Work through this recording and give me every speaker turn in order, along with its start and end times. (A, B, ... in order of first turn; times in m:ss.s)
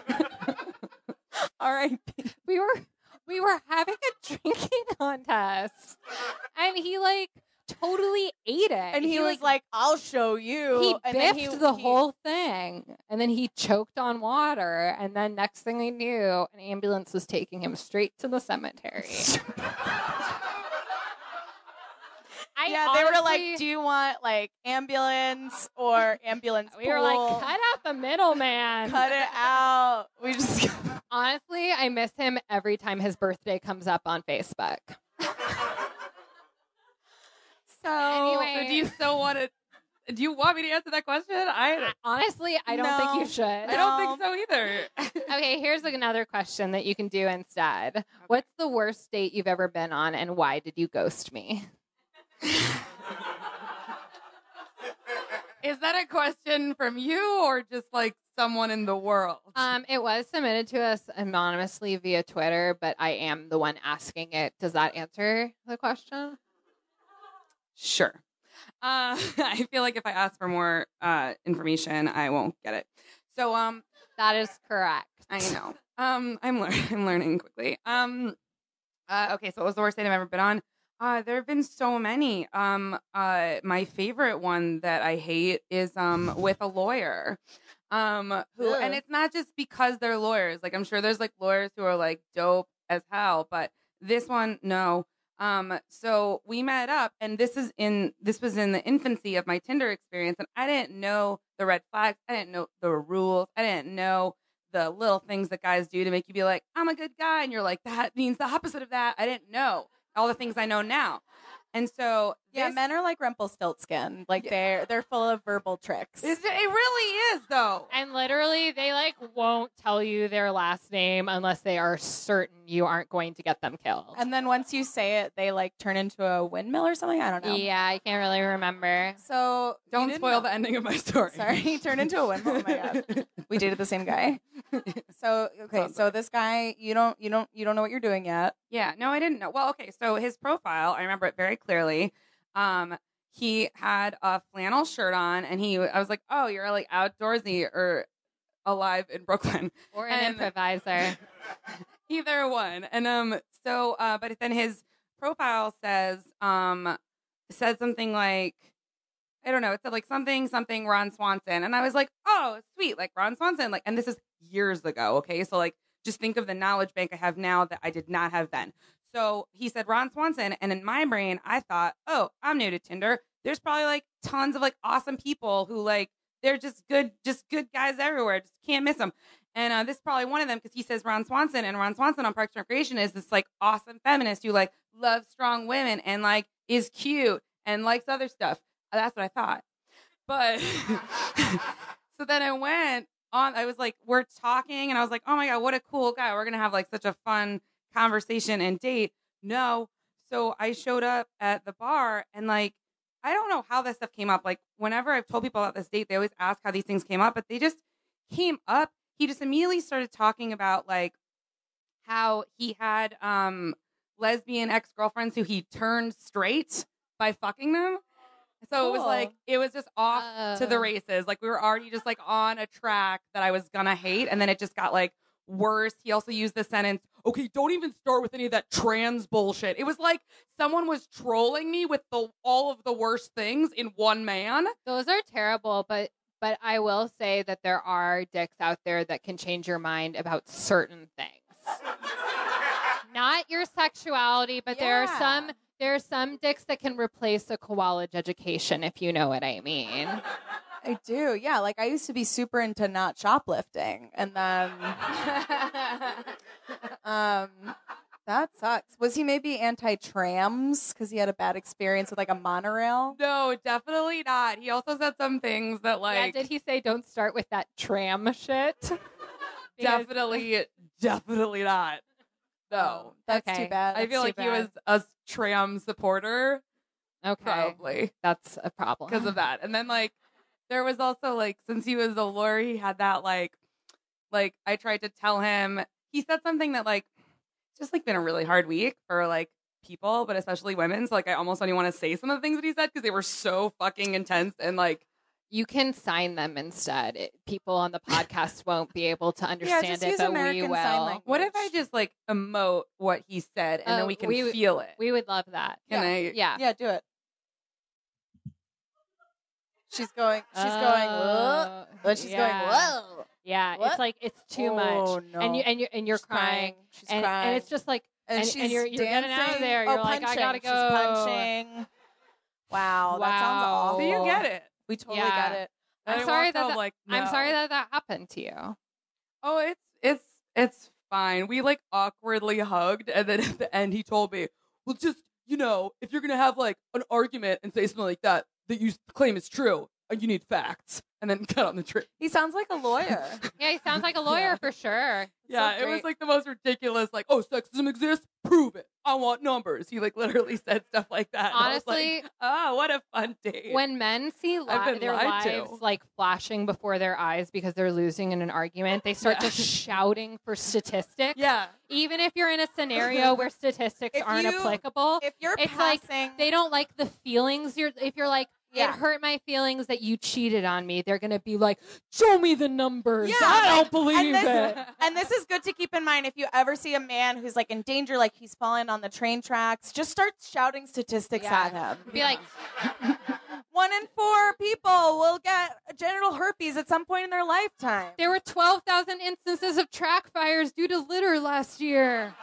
0:01.6-0:02.3 A
0:02.4-0:06.0 B
0:06.6-0:09.5 B
0:08.9-0:12.0 A
0:10.7-0:19.3 B
0:22.6-0:23.6 B
0:22.7-0:27.5 A
0:26.7-0:29.1 B
0:28.8-0:31.0 A
0:31.1-0:35.0 B
0:37.7-0:39.5 C
0:38.0-0:38.9 B
0:40.1-0:41.9 C
0:41.8-0:43.8 B
0:42.7-0:44.2 A
0:43.7-0:45.3 C
0:45.3-0:51.7 B
0:55.6-0:59.7 C
0:59.6-1:06.4 B
1:07.8-1:08.2 C
1:08.8-1:13.8 C
1:14.2-1:15.6 B
1:15.3-1:18.4 C
1:19.1-1:27.4 C
1:27.9-1:51.2 C
1:28.6-1:29.0 A
1:51.7-1:52.8 C
1:52.5-1:56.4 A
1:56.2-1:57.9 C
1:57.9-2:04.2 B
2:04.1-2:07.7 A
2:07.4-2:09.2 B
2:09.2-2:10.5 A
2:09.9-2:11.6 C
2:11.3-2:14.4 A
2:12.5-2:13.3 C
2:14.7-2:15.0 C
2:15.1-2:18.6 A
2:15.7-2:16.1 C
2:18.7-2:28.1 C
2:28.6-2:30.5 C
2:29.9-2:31.2 B
2:32.1-2:37.0 C
2:37.5-2:38.6 C
2:39.4-3:09.6 C
3:10.3-3:31.2 C
3:32.0-3:38.0 C
3:38.6-3:54.7 C
3:38.8-3:39.3 A
3:40.1-3:40.9 B
3:54.8-4:01.7 B
4:03.1-4:10.2 B
4:04.7-4:05.5 A
4:10.8-4:15.4 A
4:17.0-4:17.8 A
4:18.3-4:23.2 A
4:23.1-4:26.4 C
4:26.1-4:29.0 B
4:29.8-4:30.4 B
4:29.8-4:32.0 C
4:32.7-4:33.1 C
4:32.8-4:34.7 A
4:33.2-4:33.8 B
4:33.9-4:36.6 C
4:37.2-4:39.4 B
4:37.4-4:38.1 C
4:39.1-4:40.2 C
4:40.7-4:43.6 C
4:44.3-4:47.1 C
4:47.8-4:55.0 C
4:55.5-5:01.2 B
4:59.6-5:01.7 A
5:01.3-5:05.0 C
5:03.9-5:06.6 B
5:05.9-5:06.4 C
5:05.9-5:07.0 A
5:09.9-5:14.0 A
5:10.5-5:21.5 B
5:14.5-5:17.7 A
5:18.3-5:21.9 A
5:22.7-5:25.7 A
5:23.1-5:24.4 B
5:24.0-5:24.7 C
5:25.1-5:28.8 B
5:26.1-5:27.6 C
5:29.4-5:42.1 C
5:42.2-5:43.4 A
5:43.6-5:46.0 B
5:45.5-5:53.8 C
5:45.6-5:46.0 A
5:51.5-5:52.3 B
5:53.7-6:14.9 B
5:54.7-5:55.8 C
5:59.2-6:00.0 C
6:01.4-6:01.7 C
6:04.1-6:06.5 A
6:08.7-6:09.0 A
6:13.2-6:22.3 A
6:21.4-6:22.4 B
6:23.7-6:28.2 A
6:28.2-6:32.4 B